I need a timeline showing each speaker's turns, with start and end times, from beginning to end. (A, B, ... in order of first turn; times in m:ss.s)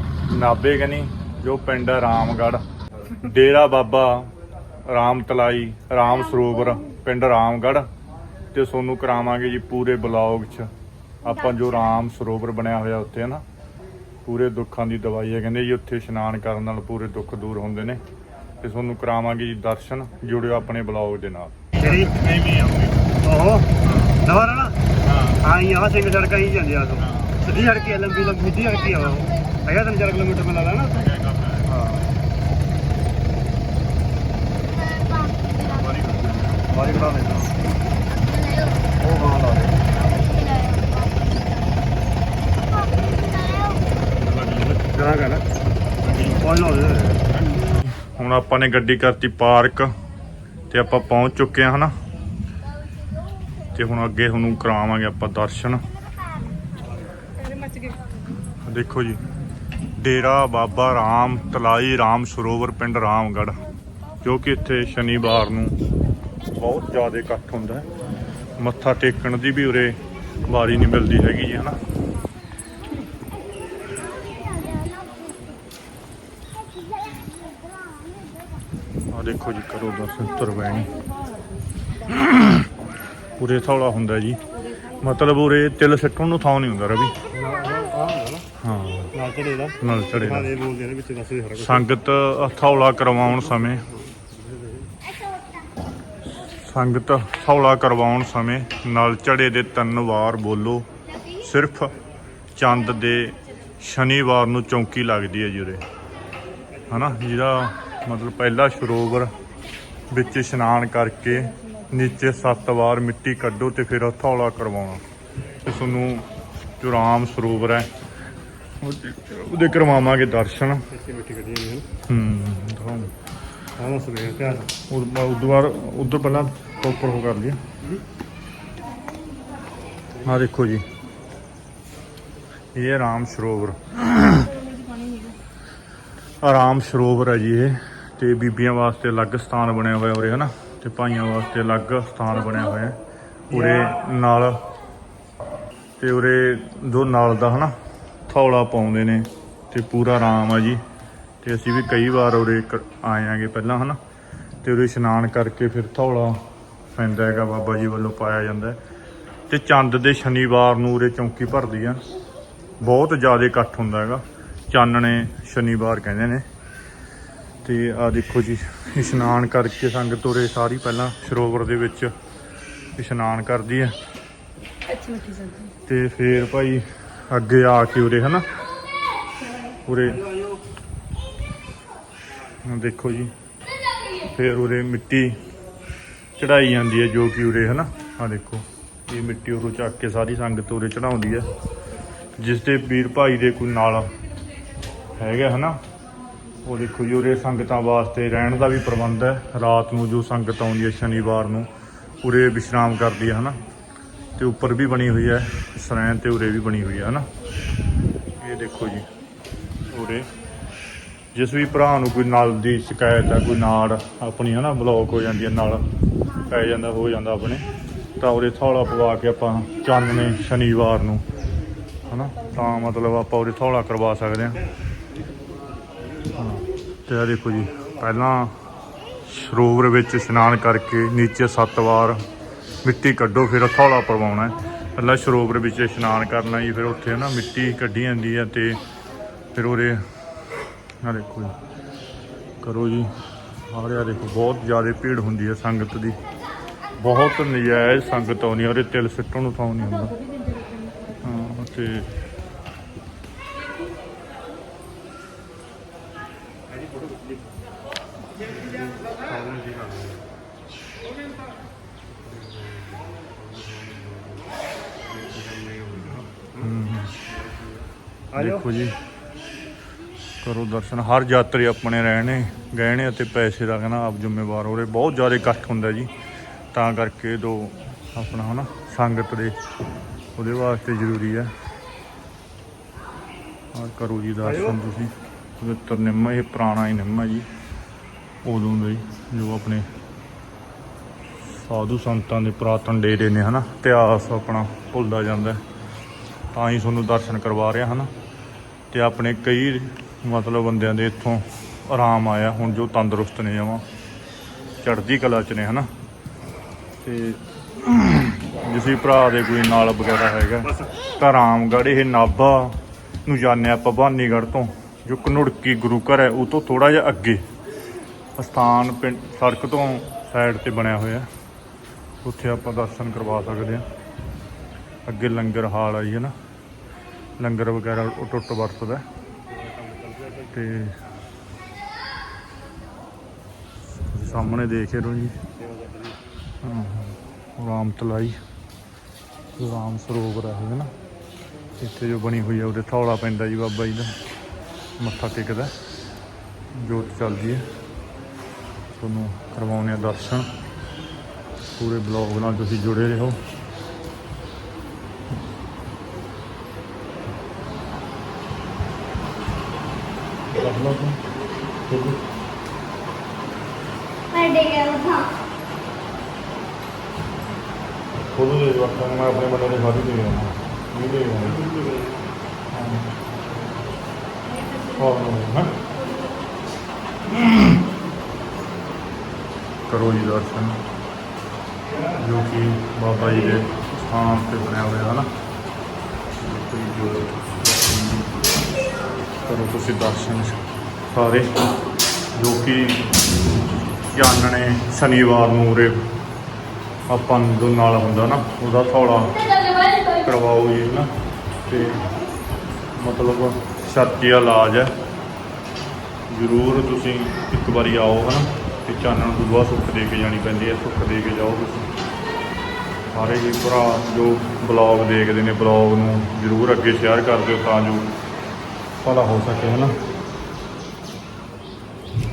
0:00.3-0:02.6 A
0:03.2-0:04.3 A
0:04.9-0:07.9 A
0:08.5-0:10.7 A
0:11.2-0:13.4 A
0:14.2-0:18.0 A
0:18.6-0:23.2 A
0:21.8-0:22.2 B
0:23.2-0:24.8 B
0:23.8-0:24.2 A
0:25.0-0:25.4 A
0:25.4-0:31.1 B
0:27.0-0:27.4 A
0:30.9-0:32.0 A
0:31.7-0:32.1 B
0:35.1-0:35.6 C
0:35.5-0:36.6 A
0:36.6-0:37.6 B
0:38.2-0:38.9 C
0:38.9-0:40.0 B
0:40.0-0:41.7 C
0:42.6-0:43.9 C
0:44.2-0:44.8 A
0:44.9-0:45.4 B
0:46.0-0:47.3 B
0:47.7-0:49.9 A
0:50.7-0:51.9 A
0:53.7-0:55.8 A
0:58.6-0:59.2 A
0:59.9-1:03.6 A
1:04.2-1:05.8 A
1:06.5-1:07.9 A
1:08.6-1:11.8 A
1:14.5-1:15.4 C
1:19.1-1:20.9 A
1:22.0-1:22.7 A
1:23.4-1:27.2 A
1:27.3-1:28.5 B
1:28.6-1:29.1 A
1:29.1-1:31.9 B
1:29.8-1:30.5 A
1:31.6-1:33.8 A
1:33.6-1:34.9 B
1:36.4-1:41.9 A
1:42.6-1:45.8 A
1:46.7-1:47.2 B
1:46.9-1:49.3 A
1:50.1-1:55.0 A
1:55.6-1:56.3 A
1:56.8-1:57.9 A
1:58.8-2:00.8 A
2:00.9-2:01.9 B
2:02.1-2:03.1 A
2:03.8-2:04.7 B
2:04.9-2:07.6 A
2:10.2-2:10.8 A
2:12.7-2:14.6 A
2:14.6-2:15.4 C
2:16.4-2:23.0 A
2:23.5-2:24.6 A
2:23.5-2:23.9 B
2:26.0-2:27.7 A
2:28.3-2:30.8 A
2:31.4-2:34.0 A
2:34.6-2:36.4 A
2:36.9-2:38.8 A
2:39.5-2:42.0 A
2:42.8-2:46.4 A
2:47.6-2:52.1 A
2:53.0-2:53.9 A
2:54.9-2:55.7 C
2:55.8-2:58.4 A
2:59.8-3:00.2 A
3:00.0-3:00.6 B
3:02.5-3:03.3 A
3:04.2-3:05.4 A
3:06.4-3:11.5 A
3:12.4-3:14.1 A
3:15.2-3:15.8 A
3:16.6-3:21.7 A
3:22.2-3:23.6 A
3:24.4-3:27.3 A
3:28.4-3:29.1 A
3:29.9-3:30.3 A
3:31.3-3:35.8 A
3:36.4-3:37.7 A
3:38.2-3:41.2 A
3:42.1-3:44.6 A
3:44.6-3:46.6 B
3:46.4-3:48.6 A
3:47.5-3:48.2 B
3:49.2-3:52.2 A
3:52.8-3:58.8 A
3:59.5-4:00.0 A
4:01.0-4:01.5 A
4:02.6-4:06.2 A
4:07.0-4:10.2 A
4:11.2-4:12.1 A
4:16.7-4:17.6 B
4:18.3-4:20.2 B
4:22.1-4:28.7 B
4:26.6-4:27.2 A
4:28.4-4:29.0 A
4:30.4-4:36.1 A
4:36.7-4:39.6 A
4:40.4-4:41.5 A
4:43.7-4:47.5 A
4:44.4-4:44.8 B
4:48.4-4:49.9 A
4:51.5-4:55.6 A
4:56.5-4:58.1 A
4:58.9-5:03.8 A
5:04.8-5:05.9 A
5:07.0-5:17.4 A
5:10.6-5:10.9 B
5:18.4-5:21.3 A
5:22.2-5:23.8 A
5:25.0-5:26.3 A
5:27.4-5:29.0 A
5:29.4-5:30.7 B
5:30.5-5:31.0 A
5:34.1-5:35.4 A
5:34.3-5:34.6 B
5:35.6-5:36.2 B
5:36.6-5:38.4 A
5:39.6-5:40.9 A
5:41.8-5:44.2 A
5:45.0-5:45.7 A
5:46.7-5:47.6 A
5:49.0-5:50.5 A
5:51.8-5:53.4 A
6:00.5-6:01.2 A
6:01.8-6:02.2 A
6:04.3-6:05.3 C
6:08.3-6:11.6 A
6:11.4-6:12.2 B
6:12.7-6:13.1 A
6:14.5-6:14.8 C
6:14.8-6:15.8 A
6:17.3-6:17.8 A
6:19.9-6:20.8 A
6:21.8-6:22.2 B
6:22.2-6:25.3 A
6:26.4-6:28.4 A
6:29.4-6:30.6 A
6:31.1-6:31.6 A
6:32.3-6:33.1 A
6:34.0-6:36.0 A
6:37.1-6:41.1 A
6:41.6-6:42.2 A
6:42.9-6:44.9 A
6:46.3-6:51.9 A
6:53.1-6:58.1 A
6:59.0-7:00.0 A